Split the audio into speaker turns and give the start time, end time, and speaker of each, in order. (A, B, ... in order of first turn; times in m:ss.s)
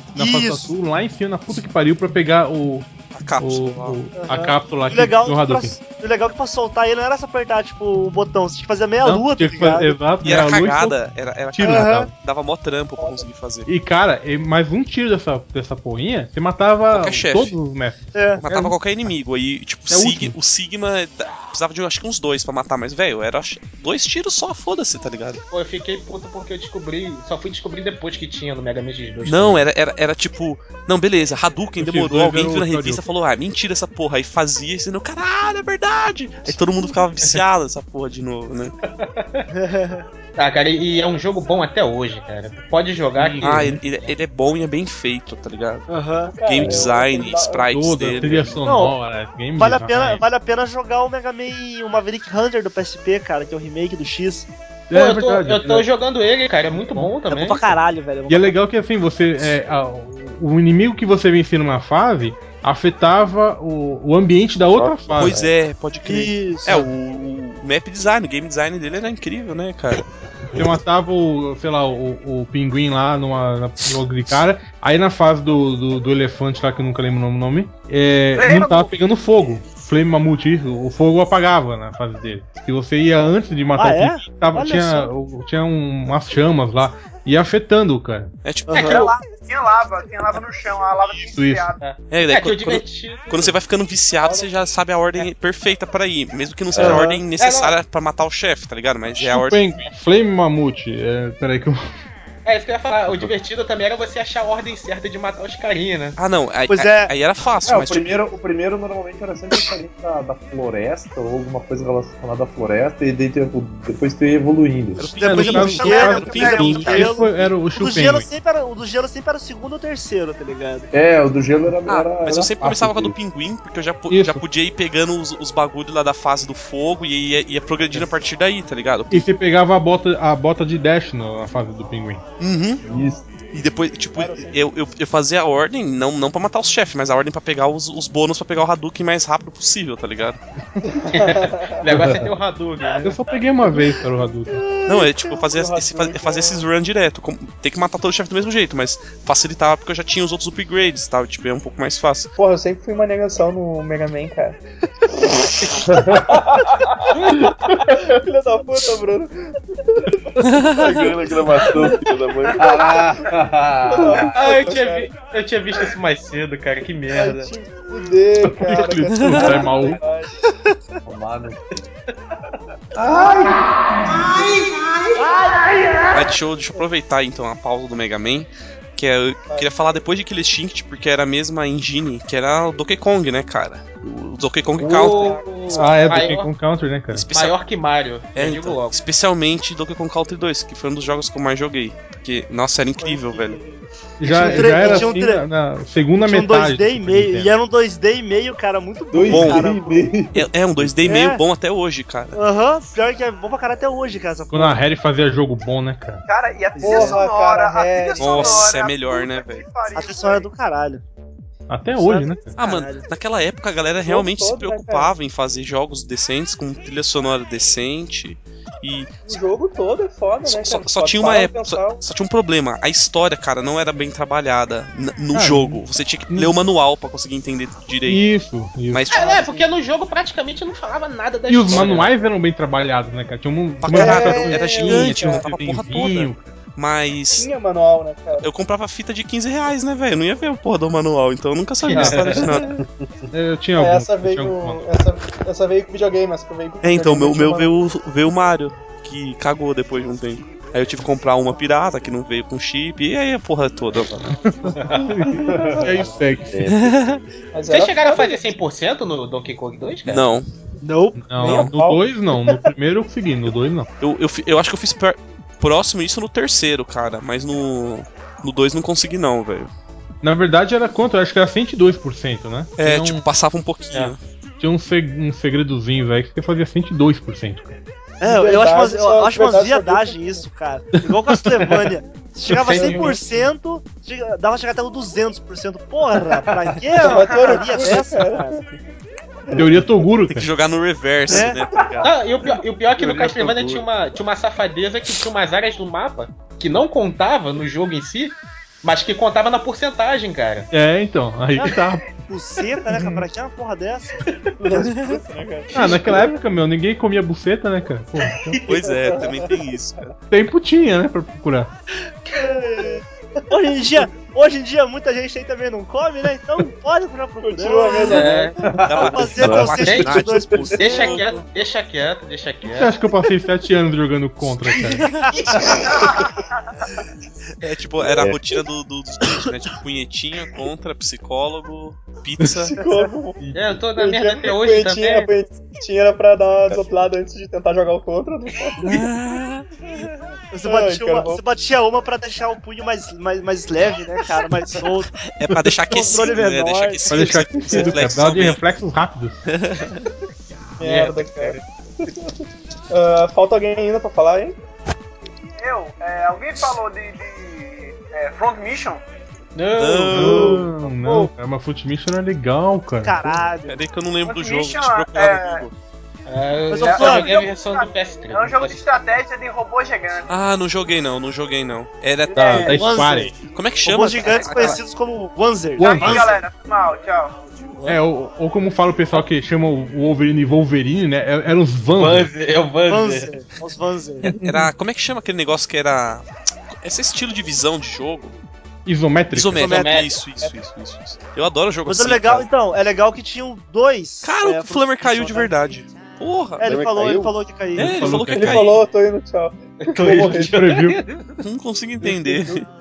0:00.1-0:00.7 A
0:00.1-0:02.9 B
0:03.1-0:04.0 C
0:03.4-0:05.8 B
0:04.2-0:10.0 A
0:09.0-0:11.0 B
0:10.2-0:13.7 C
0:11.5-0:12.1 B
0:11.6-0:12.1 A
0:13.0-0:13.2 D
0:13.7-0:18.7 B
0:16.9-0:17.6 C
0:18.1-0:18.7 A
0:18.4-0:25.4 C
0:19.9-0:20.4 B
0:25.5-0:29.7 E
0:29.2-0:38.7 C
0:31.8-0:33.0 B
0:39.0-0:39.4 E
0:39.5-0:40.1 A
0:40.4-0:43.7 E
0:43.2-0:43.8 B
0:43.4-0:45.9 C
0:45.9-0:46.3 A
0:46.3-0:47.7 D
0:46.4-0:48.6 C
0:47.7-0:50.2 B
0:48.6-0:49.0 A
0:49.6-0:54.5 A
0:54.9-0:55.9 B
0:54.9-0:57.7 E
0:56.7-0:57.1 B
0:57.3-0:58.6 A
0:58.3-1:05.4 B
1:04.6-1:05.5 F
1:05.2-1:10.0 C
1:06.0-1:06.8 A
1:10.5-1:28.3 B
1:18.3-1:18.9 G
1:23.8-1:25.1 A
1:28.4-1:29.1 C
1:28.7-1:29.2 A
1:28.7-1:29.1 E
1:29.2-1:31.8 G
1:31.2-1:31.7 B
1:31.8-1:33.6 E
1:32.1-1:39.6 C
1:36.7-1:37.0 F
1:36.8-1:37.2 A
1:37.4-1:37.8 E
1:39.2-1:41.8 B
1:42.4-1:46.2 E
1:43.1-1:43.3 F
1:46.2-1:48.2 C
1:46.7-1:47.1 A
1:47.6-1:55.2 H
1:55.0-1:57.4 C
1:55.1-1:58.3 B
1:55.2-2:00.9 A
2:00.9-2:03.2 H
2:01.9-2:09.2 C
2:04.1-2:04.4 B
2:09.1-2:12.2 B
2:12.4-2:12.8 C
2:12.8-2:13.2 H
2:13.5-2:20.4 C
2:14.1-2:14.6 D
2:21.0-2:23.2 E
2:21.1-2:21.8 D
2:21.9-2:22.3 H
2:23.0-2:24.7 B
2:24.5-2:26.7 D
2:24.8-2:32.3 C
2:32.4-2:34.6 D
2:35.9-2:36.4 H
2:36.1-2:40.2 D
2:40.7-2:43.0 F
2:42.5-2:44.6 H
2:42.9-2:43.3 D
2:43.8-2:45.1 D
2:44.3-2:47.5 E
2:47.1-2:50.4 D
2:48.6-2:50.0 B
2:49.3-2:49.8 H
2:51.0-2:51.8 H
2:52.9-2:53.6 H
2:56.1-3:05.4 C
3:04.8-3:06.5 E
3:05.0-3:06.0 D
3:05.7-3:07.3 B
3:07.1-3:07.6 C
3:07.3-3:09.0 E
3:08.3-3:13.6 C
3:13.0-3:15.2 D
3:14.2-3:17.5 B
3:14.2-3:15.4 A
3:16.2-3:20.1 A
3:19.1-3:21.1 H
3:19.2-3:19.6 C
3:20.3-3:22.4 C
3:21.0-3:21.4 A
3:22.3-3:24.8 A
3:24.5-3:26.2 B
3:26.3-3:30.5 G
3:26.8-3:27.2 A
3:26.8-3:28.7 D
3:28.2-3:29.6 C
3:29.9-3:31.0 A
3:31.7-3:32.6 B
3:32.0-3:33.0 A
3:32.6-3:39.4 C
3:34.0-3:35.1 D
3:39.2-3:42.0 D
3:40.4-3:48.2 C
3:45.3-3:46.5 B
3:48.0-3:49.1 B
3:48.9-3:49.6 C
3:49.1-3:52.1 E
3:51.5-3:56.5 B
3:51.7-3:52.0 C
3:53.8-3:57.5 C
3:53.9-3:55.5 D
3:57.3-3:58.5 D
3:58.4-4:02.7 C
4:01.8-4:02.6 E
4:01.9-4:02.4 B
4:03.3-4:04.8 B
4:03.8-4:07.7 D
4:06.8-4:14.2 C
4:14.4-4:16.6 B
4:14.7-4:15.1 E
4:15.4-4:15.9 H
4:15.6-4:15.8 D
4:16.5-4:17.2 F
4:16.7-4:17.2 C
4:17.5-4:18.4 D
4:17.7-4:20.2 E
4:20.0-4:20.5 C
4:20.8-4:21.7 A
4:21.2-4:23.9 B
4:21.4-4:22.5 D
4:24.0-4:29.7 C
4:30.2-4:33.2 B
4:32.8-4:34.2 C
4:34.6-4:37.8 B
4:38.2-4:48.6 A
4:38.2-4:40.4 D
4:42.6-4:43.2 E
4:42.8-4:43.0 D
4:46.9-4:48.8 D
4:47.0-4:47.9 G
4:49.5-4:49.8 D
4:49.5-4:50.5 B
4:50.3-4:52.2 C
4:51.3-4:51.6 A
4:52.0-5:00.7 E
5:00.7-5:02.0 B
5:02.3-5:04.2 A
5:04.6-5:06.0 D
5:05.7-5:08.6 B
5:05.8-5:06.2 E
5:08.5-5:08.9 E
5:08.7-5:10.1 C
5:08.9-5:09.5 D
5:10.3-5:11.7 B
5:12.4-5:13.0 D
5:12.4-5:13.0 A
5:13.5-5:21.3 A
5:17.4-5:18.5 D
5:18.0-5:18.5 E
5:18.6-5:19.5 H
5:18.8-5:21.3 C
5:19.4-5:19.8 F
5:19.5-5:23.0 E
5:22.7-5:25.1 B
5:25.4-5:26.1 E
5:27.6-5:32.7 C
5:28.0-5:28.6 F
5:32.4-5:38.9 D
5:32.8-5:33.1 A
5:33.5-5:35.3 E
5:38.8-5:39.6 C
5:40.5-5:45.1 A
5:40.6-5:41.4 D
5:45.3-5:48.6 C
5:45.9-5:47.9 A
5:47.1-5:49.4 B
5:49.5-5:49.9 C
5:50.8-5:51.6 E
5:50.8-5:52.3 D
5:52.9-5:54.6 D
5:55.6-5:59.0 G
5:59.5-6:00.7 E
5:59.8-6:00.6 C
6:00.1-6:03.4 B
6:00.9-6:01.3 D
6:03.0-6:03.8 A
6:03.7-6:05.7 C
6:04.2-6:05.6 G
6:06.3-6:08.8 E
6:06.7-6:07.4 A
6:06.7-6:10.3 G
6:10.3-6:12.9 C
6:12.3-6:12.8 G
6:12.3-6:13.3 B
6:12.6-6:13.3 A
6:13.5-6:14.8 C
6:13.8-6:16.4 A
6:15.8-6:16.3 B
6:15.8-6:17.4 G
6:17.8-6:22.3 B
6:21.9-6:23.3 E
6:22.8-6:24.3 A
6:24.3-6:28.3 C
6:24.4-6:24.7 B
6:28.8-6:29.7 B
6:29.3-6:32.4 C
6:29.6-6:30.0 A
6:29.6-6:30.2 E
6:31.8-6:35.6 A
6:34.2-6:36.6 C
6:36.6-6:38.1 A
6:36.6-6:37.3 F
6:37.8-6:38.8 C
6:37.8-6:38.7 B
6:38.3-6:40.6 D
6:39.8-6:41.2 E
6:40.3-6:41.0 B
6:41.4-6:42.6 C
6:42.0-6:42.6 D